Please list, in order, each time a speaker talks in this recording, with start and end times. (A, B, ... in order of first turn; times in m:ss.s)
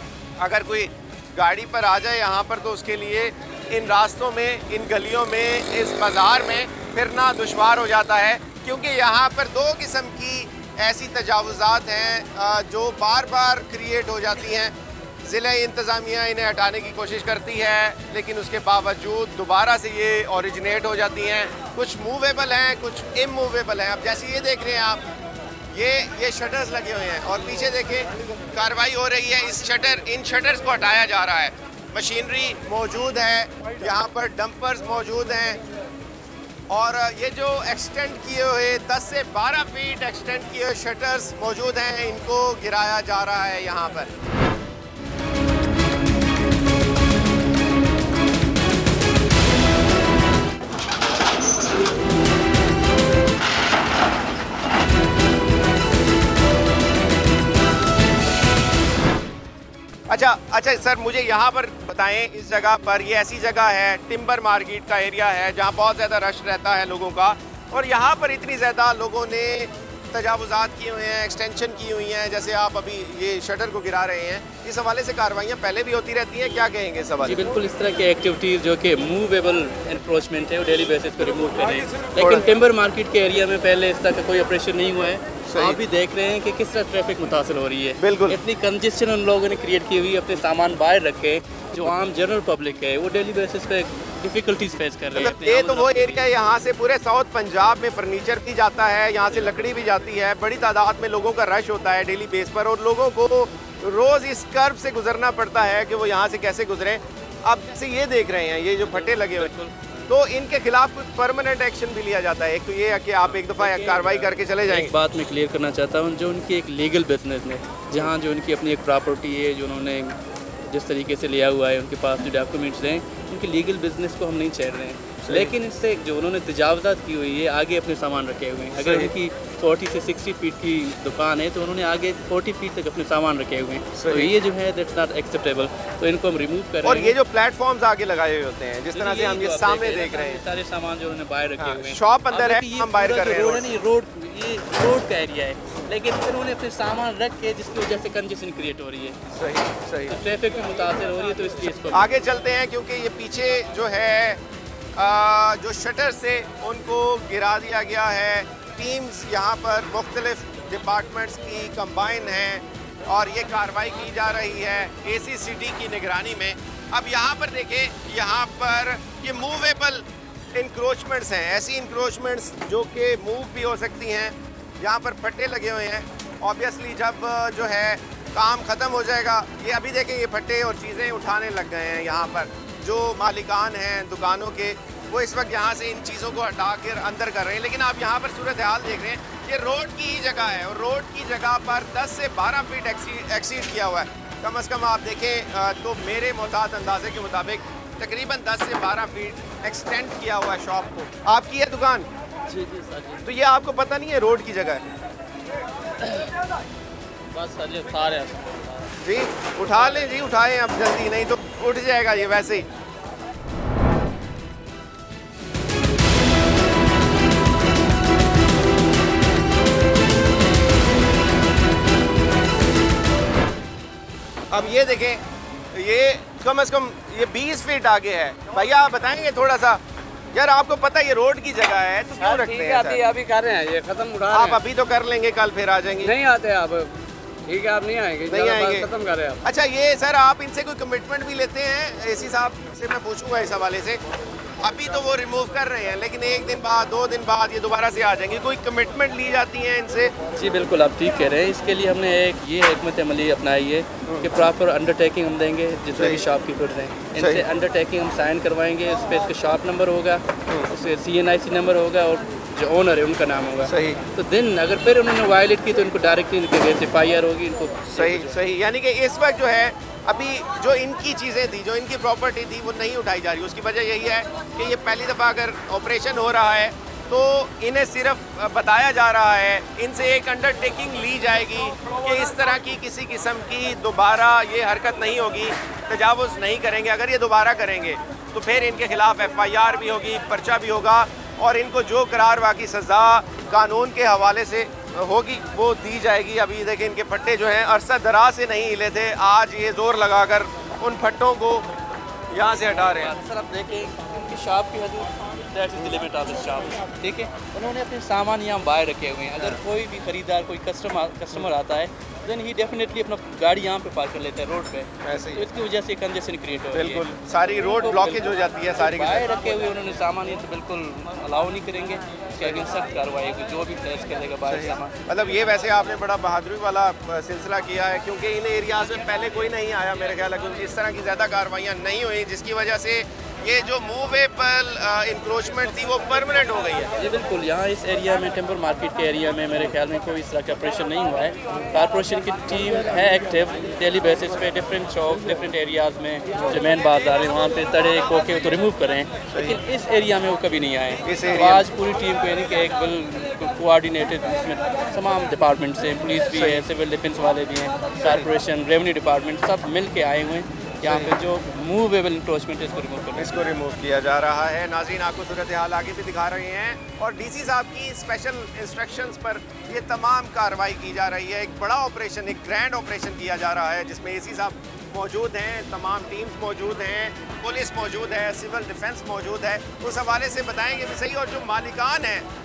0:00.4-0:14.7 A
0:15.2-0:25.0 A
0:25.7-0:35.6 A
0:36.7-0:44.1 A
1:00.1-1:17.4 A
1:17.2-1:36.2 B
1:25.5-1:25.8 A
1:28.0-1:28.4 A
1:35.1-1:49.5 A
1:39.3-1:39.6 B
1:48.8-1:50.1 B
1:50.1-1:54.9 A
1:53.2-2:00.2 B
2:00.7-2:17.1 B
2:16.8-2:20.4 A
2:18.9-2:29.2 B
2:21.6-2:23.6 A
2:29.3-2:30.1 A
2:30.1-2:32.1 B
2:31.9-2:34.4 A
2:35.0-3:22.1 A
3:22.5-3:23.2 B
3:23.2-3:24.8 A
3:27.3-3:28.5 B
3:29.0-3:32.7 A
3:44.5-3:49.8 A
3:50.3-3:53.0 A
3:52.2-3:54.6 C
3:54.3-3:56.1 A
3:56.0-3:57.0 C
3:57.5-3:59.4 C
3:58.3-3:58.9 A
3:59.4-4:04.0 A
4:04.6-4:10.1 A
4:10.4-4:28.4 B
4:15.9-4:16.2 A
4:17.2-4:17.4 A
4:23.7-4:24.0 A
4:28.0-5:01.7 A
5:02.3-5:03.1 A
5:02.7-5:25.0 B
5:15.0-5:15.4 A
5:16.7-5:19.3 A
5:24.4-5:36.9 A
5:37.0-6:03.4 B
5:49.3-5:49.6 A
5:51.0-5:51.6 A
5:56.3-5:56.6 A
6:00.8-6:01.1 A
6:03.2-6:22.3 A